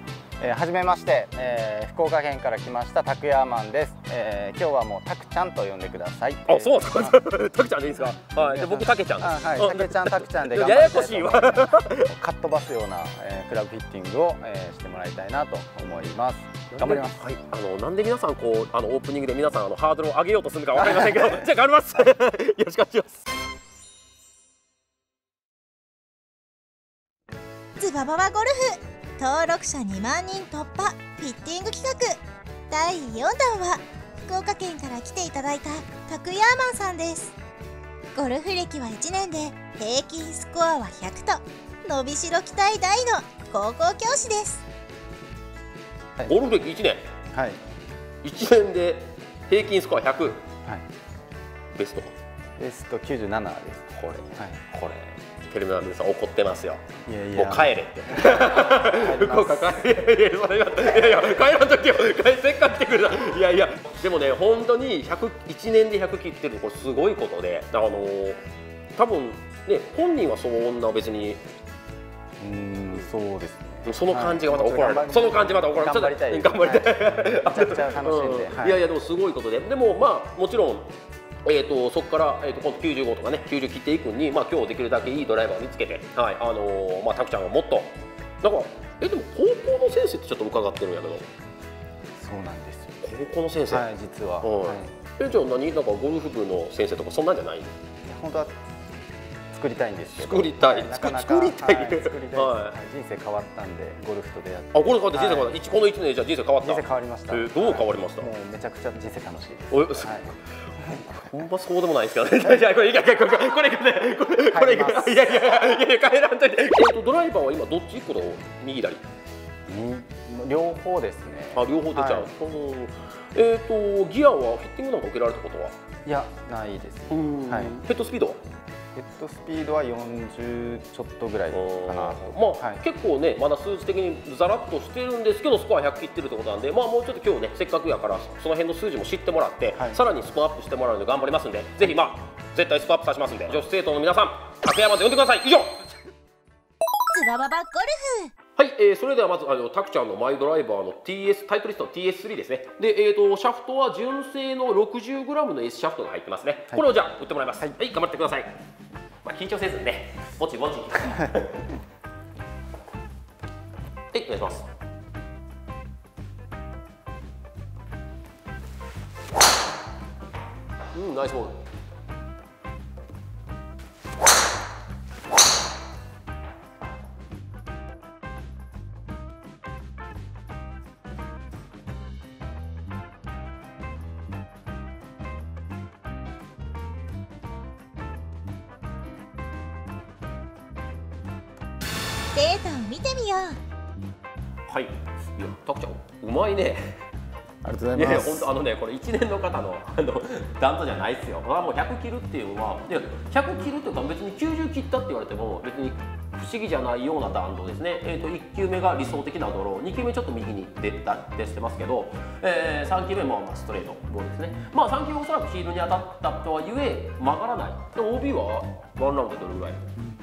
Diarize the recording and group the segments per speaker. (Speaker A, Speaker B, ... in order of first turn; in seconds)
Speaker A: 0.4-7.2, 8.4-17.4, 20.8-21.5, 47.3-47.6, 52.6-54.6, 57.1-59.9, 72.4-78.8, 92.2-93.0, 93.7-94.9, 98.0-98.6, 99.5-105.5, 106.6-111.1, 114.5-115.3, 119.7-122.3, 126.0-127.8, 128.9-132.8, 197.6-198.5
Speaker B: 6.5-12.1, 16.7-23.2, 46.2-47.1, 48.2-50.4, 51.7-52.1, 53.9-68.4, 69.0-71.4, 73.8-80.9, 81.4-91.3, 93.0-93.9, 94.4-97.8, 100.1-102.8, 104.7-108.3, 109.7-119.0, 121.5-125.7, 127.1-128.4, 131.5-145.8, 148.6-158.6, 159.2-161.7, 164.1-164.7, 170.9-171.6, 194.7-197.0, 197.9-219.8
Speaker C: 27.8-37.3, 38.1-44.6, 147.1-148.3, 192.3-193.6